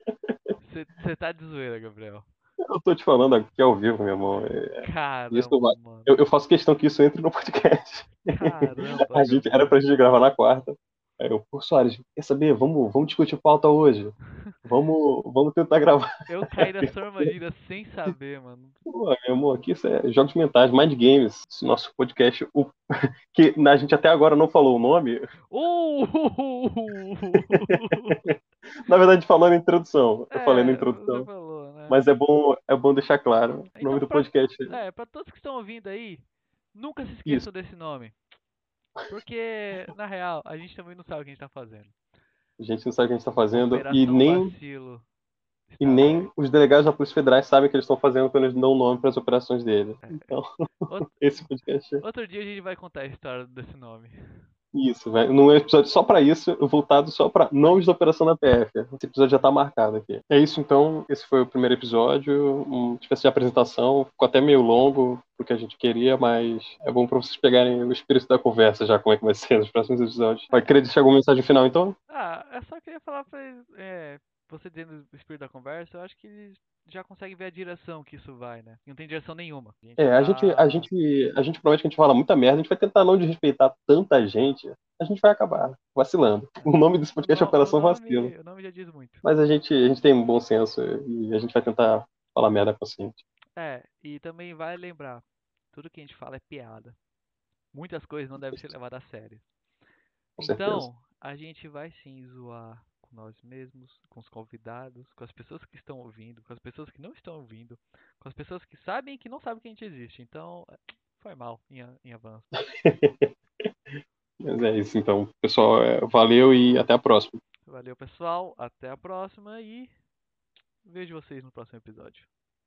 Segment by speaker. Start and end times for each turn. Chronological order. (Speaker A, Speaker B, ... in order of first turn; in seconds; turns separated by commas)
Speaker A: 0.6-2.3, Speaker B: 2.7-17.3, Speaker A: 4.8-6.2, Speaker A: 8.3-9.8, Speaker A: 16.3-18.8, Speaker B: 18.9-22.7, Speaker B: 23.3-25.2, Speaker A: 25.5-28.2, Speaker B: 27.7-28.3, Speaker B: 28.9-31.3, Speaker A: 30.3-32.0, Speaker B: 31.9-34.8, Speaker A: 33.8-38.2, Speaker A: 39.1-41.9, Speaker B: 42.6-44.5, Speaker A: 43.5-45.0, Speaker A: 45.7-46.3, Speaker B: 45.8-50.5, Speaker A: 50.0-50.3, Speaker B: 51.0-52.0, Speaker A: 52.0-54.2, Speaker B: 54.7-72.0, Speaker A: 70.5-70.8, Speaker A: 72.1-80.9, Speaker B: 80.0-88.3, Speaker A: 86.6-89.2, Speaker B: 89.2-93.2, Speaker A: 93.6-97.0, Speaker A: 97.7-99.5, Speaker B: 98.4-98.7, Speaker B: 100.4-100.9, Speaker A: 100.4-112.5, Speaker B: 112.8-113.3, Speaker B: 114.4-117.4, Speaker A: 117.7-119.9, Speaker A: 120.8-122.3